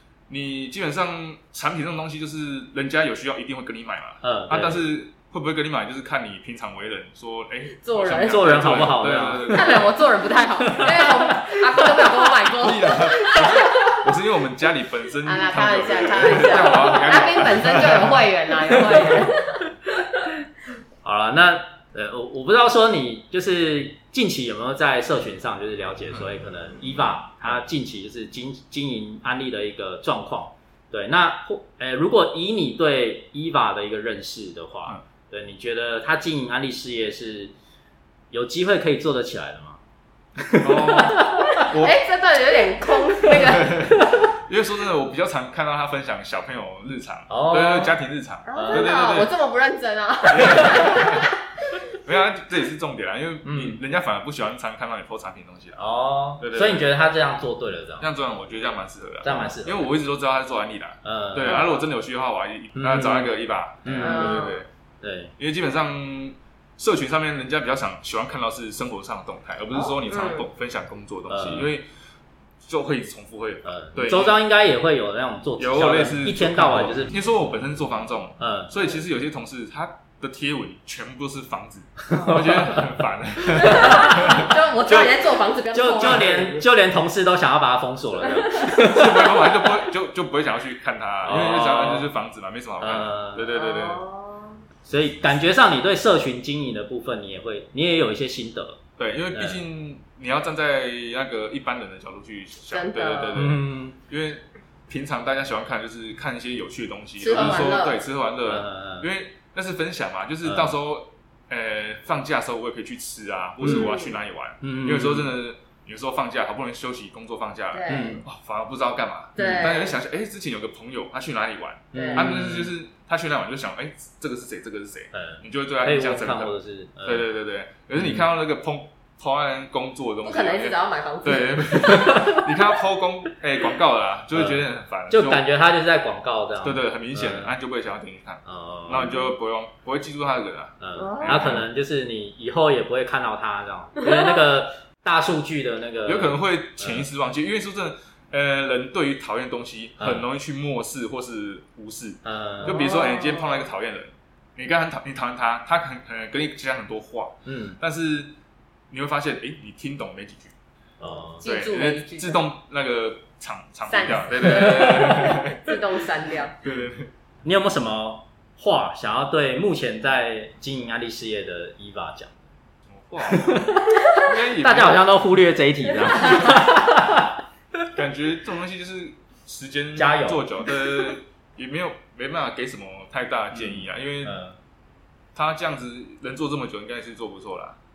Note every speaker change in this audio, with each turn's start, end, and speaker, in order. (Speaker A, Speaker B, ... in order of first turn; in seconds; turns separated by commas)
Speaker A: 0.3-10.0, Speaker B: 4.2-4.8, Speaker C: 7.8-14.0, Speaker B: 8.2-9.9, Speaker B: 10.6-12.3, Speaker A: 12.6-18.1, Speaker C: 15.2-19.7, Speaker B: 21.0-37.5, Speaker B: 38.3-39.8, Speaker B: 40.4-41.5, Speaker A: 40.6-42.0, Speaker C: 41.2-44.0, Speaker A: 43.3-49.3, Speaker B: 47.3-48.0, Speaker C: 48.5-51.3, Speaker B: 48.5-49.0, Speaker A: 50.3-51.3, Speaker A: 51.9-55.9, Speaker B: 53.5-53.8, Speaker B: 55.8-58.1, Speaker A: 56.4-56.8, Speaker A: 58.0-64.7, Speaker B: 59.2-59.9, Speaker B: 61.0-61.7, Speaker C: 61.5-61.7, Speaker B: 62.8-65.3, Speaker C: 64.0-64.6, Speaker A: 65.4-71.9, Speaker C: 69.8-70.5, Speaker B: 71.3-71.7, Speaker A: 72.6-74.4, Speaker B: 73.7-77.2, Speaker A: 75.6-85.1, Speaker B: 78.4-78.7, Speaker C: 82.1-82.4, Speaker B: 82.2-82.8, Speaker C: 83.5-86.5, Speaker B: 83.7-84.4, Speaker B: 85.7-89.7, Speaker A: 86.0-86.6, Speaker C: 88.3-88.7, Speaker A: 88.7-94.0, Speaker B: 91.2-92.1, Speaker B: 92.8-93.5, Speaker C: 93.5-94.6, Speaker B: 94.8-98.8, Speaker A: 99.0-135.4, Speaker B: 99.3-99.6, Speaker C: 102.7-103.5, Speaker B: 103.3-104.0, Speaker C: 107.2-108.0, Speaker B: 107.3-107.6, Speaker B: 108.5-109.1, Speaker B: 110.4-110.8, Speaker B: 113.6-114.0, Speaker C: 113.7-114.1, Speaker B: 114.6-115.4, Speaker C: 117.7-118.2, Speaker B: 117.9-118.2, Speaker C: 119.4-120.0, Speaker B: 119.4-119.7, Speaker C: 121.9-122.3, Speaker B: 121.9-122.7, Speaker B: 125.1-127.3, Speaker B: 128.0-128.3, Speaker C: 130.2-132.3, Speaker B: 134.3-137.5, Speaker A: 136.6-141.7, Speaker B: 138.5-139.2, Speaker B: 140.8-147.1, Speaker C: 140.9-141.5, Speaker C: 144.0-144.4, Speaker A: 146.1-158.3, Speaker B: 150.0-150.2, Speaker B: 152.2-152.9, Speaker C: 152.7-153.7, Speaker B: 157.5-157.8, Speaker A: 158.9-160.5, Speaker B: 161.0-161.4, Speaker C: 161.0-162.5, Speaker A: 161.4-165.8, Speaker C: 163.9-166.6, Speaker A: 166.6-167.1, Speaker B: 167.4-172.4, Speaker A: 172.9-175.2, Speaker B: 173.2-177.3, Speaker A: 177.9-184.4, Speaker B: 179.9-180.6, Speaker B: 183.5-184.6, Speaker A: 185.3-187.8